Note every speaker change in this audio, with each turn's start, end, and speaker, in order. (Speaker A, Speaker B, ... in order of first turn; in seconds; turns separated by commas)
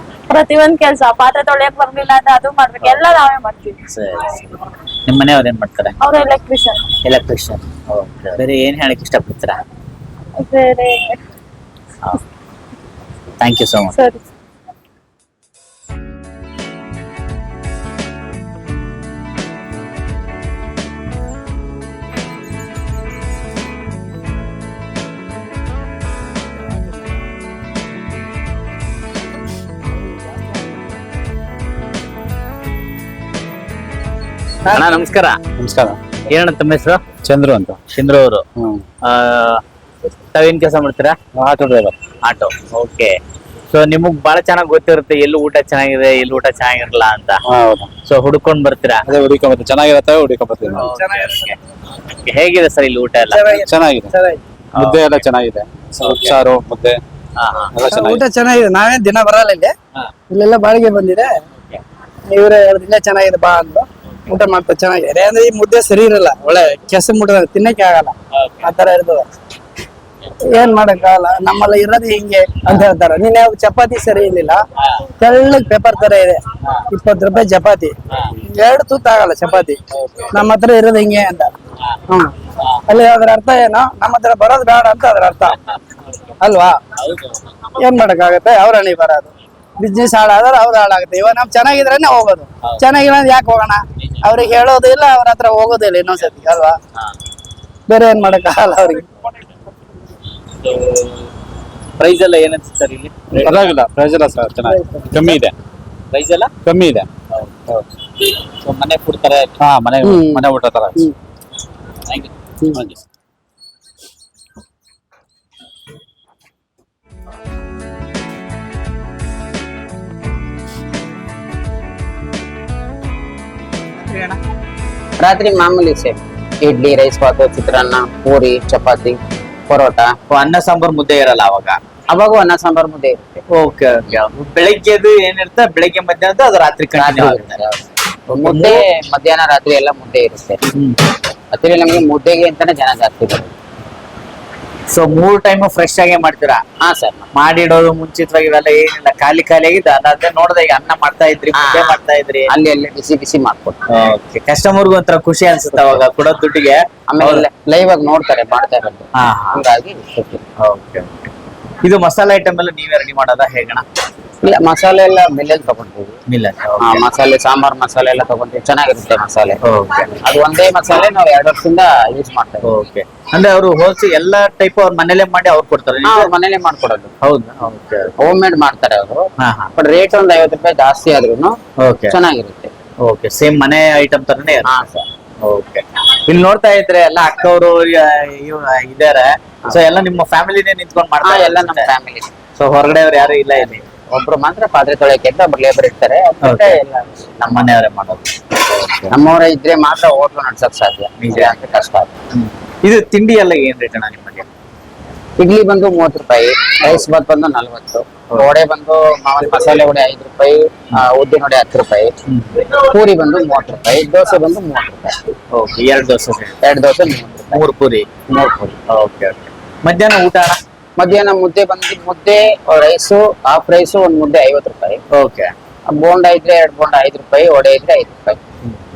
Speaker A: 0.3-3.8, Speaker B: 3.9-6.0, Speaker A: 6.0-6.9, Speaker B: 7.0-9.6, Speaker A: 10.4-11.2, Speaker B: 13.4-14.0, Speaker A: 13.9-14.2, Speaker B: 34.7-35.4, Speaker C: 35.6-36.0, Speaker B: 36.3-37.0, Speaker C: 37.2-37.8, Speaker B: 37.9-38.4, Speaker B: 39.0-39.6, Speaker B: 40.3-41.2, Speaker C: 41.4-41.9, Speaker B: 42.2-43.2, Speaker B: 43.7-47.4, Speaker C: 47.4-47.9, Speaker B: 48.1-49.0, Speaker C: 49.1-50.9, Speaker D: 50.8-51.5, Speaker B: 50.8-53.5, Speaker D: 53.3-54.4, Speaker C: 53.5-54.1, Speaker C: 54.7-57.0, Speaker B: 54.8-55.2, Speaker B: 56.0-56.3, Speaker B: 57.4-57.7, Speaker C: 57.7-58.2, Speaker D: 57.9-59.7, Speaker D: 60.3-61.3, Speaker B: 61.6-61.8, Speaker D: 62.3-69.2, Speaker B: 68.3-68.7, Speaker D: 70.5-74.6, Speaker D: 75.2-76.4, Speaker D: 76.9-79.8, Speaker B: 79.9-80.3, Speaker D: 80.3-81.5, Speaker D: 82.1-82.3, Speaker D: 82.9-85.6, Speaker D: 86.4-86.8, Speaker B: 87.0-87.4, Speaker D: 87.8-96.8, Speaker B: 96.2-97.1, Speaker D: 97.9-99.1, Speaker B: 100.6-101.2, Speaker B: 102.0-103.8, Speaker C: 103.3-105.5, Speaker B: 106.1-106.5, Speaker C: 106.6-107.1, Speaker B: 107.3-107.8, Speaker B: 108.6-109.6, Speaker C: 109.6-111.0, Speaker B: 112.1-113.0, Speaker B: 124.0-124.4, Speaker E: 125.2-130.1, Speaker B: 130.3-131.8, Speaker E: 132.1-133.4, Speaker B: 133.5-137.6, Speaker E: 136.9-140.6, Speaker B: 138.4-138.8, Speaker B: 140.7-141.0, Speaker E: 141.5-143.5, Speaker B: 144.9-146.6, Speaker E: 146.8-147.3, Speaker B: 147.3-152.5, Speaker E: 151.5-153.8, Speaker B: 153.9-157.4, Speaker E: 155.7-156.0, Speaker E: 157.1-160.4, Speaker B: 159.2-159.6, Speaker B: 160.6-161.3, Speaker B: 161.8-163.8, Speaker E: 164.4-166.2, Speaker B: 166.3-167.0, Speaker E: 166.8-169.6, Speaker B: 169.6-170.1, Speaker E: 170.2-172.7, Speaker B: 172.6-176.3, Speaker E: 176.0-177.1, Speaker B: 177.2-178.2, Speaker E: 178.2-181.6, Speaker B: 179.4-179.7, Speaker B: 181.8-182.2, Speaker E: 182.1-182.7, Speaker B: 183.0-184.8, Speaker E: 184.6-185.1, Speaker B: 185.4-191.9, Speaker E: 191.2-192.3, Speaker B: 192.6-193.8, Speaker E: 193.6-197.8, Speaker B: 196.4-196.8, Speaker B: 197.5-199.1, Speaker E: 199.1-202.2, Speaker B: 201.2-201.6, Speaker B: 202.3-204.5, Speaker E: 205.4-215.2, Speaker B: 212.3-212.6, Speaker B: 215.5-216.6, Speaker E: 216.6-217.6, Speaker B: 217.5-218.1, Speaker E: 218.3-218.8, Speaker B: 218.9-220.6, Speaker E: 221.0-225.0, Speaker B: 225.1-225.5, Speaker E: 225.9-228.4